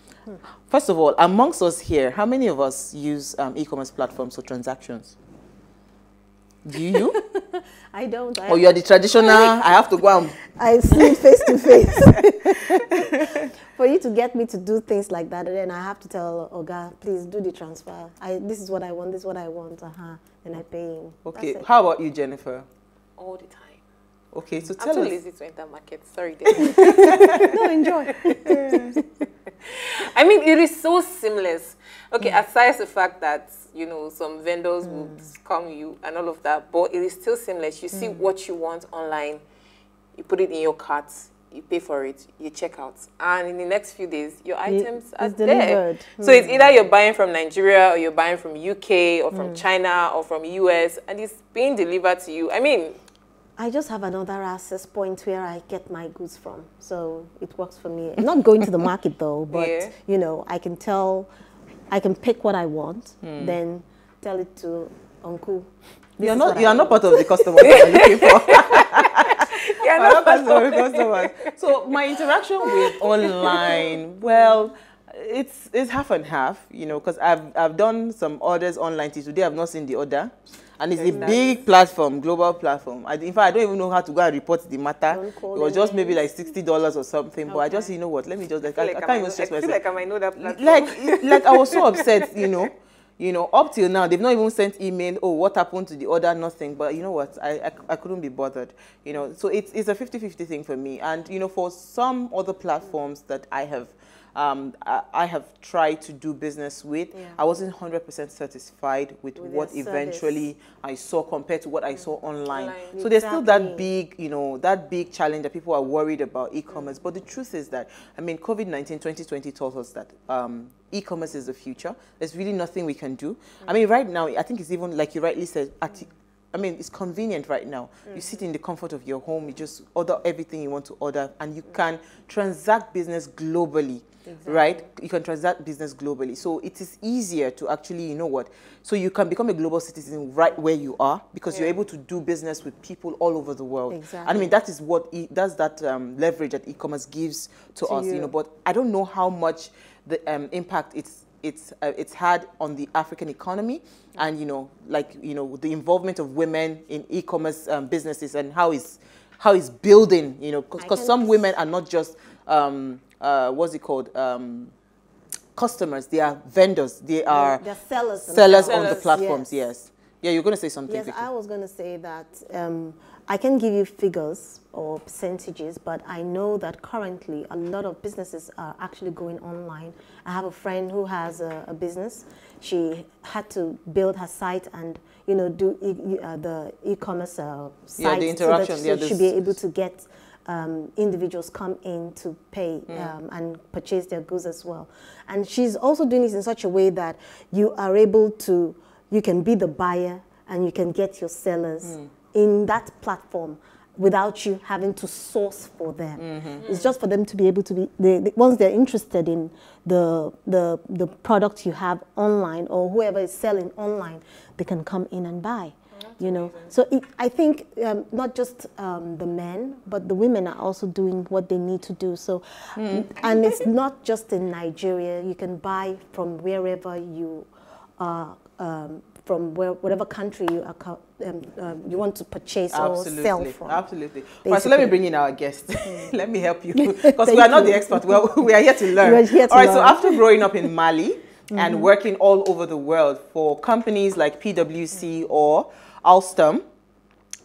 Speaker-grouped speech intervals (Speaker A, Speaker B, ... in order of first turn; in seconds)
Speaker A: 0.7-5.1, 6.6-7.1, 8.5-10.4, 12.8-13.4, 21.2-22.6, 24.3-25.2, 26.5-27.3, 63.2-63.6, 66.2-89.8, 90.3-164.7, 165.6-167.6, 168.2-171.3, 188.0-189.5, 192.9-193.1, 201.8-202.1, 206.2-206.6, 222.8-223.1, 232.7-246.6
Speaker B: 7.0-9.8, 10.5-21.7, 26.7-29.1, 34.8-35.2, 37.9-38.3, 44.6-46.8, 49.3-49.6, 53.6-61.3, 61.9-68.0, 74.4-74.7, 81.0-81.4, 85.1-86.2, 87.5-87.8, 107.1-107.4, 109.3-110.5, 112.9-113.9, 128.1-128.4, 134.2-134.8, 143.9-144.5, 147.8-148.3, 160.8-161.5, 167.3-169.7, 170.9-233.8, 234.4-235.0, 235.8-236.2, 236.7-240.7, 241.5-241.9
Speaker C: 23.2-23.8, 24.7-27.5, 29.6-39.4, 40.2-53.0, 59.5-59.9, 67.7-71.5, 72.6-73.8, 81.0-81.5, 88.6-92.2, 112.5-113.0, 168.6-169.2, 206.6-206.9, 216.0-216.7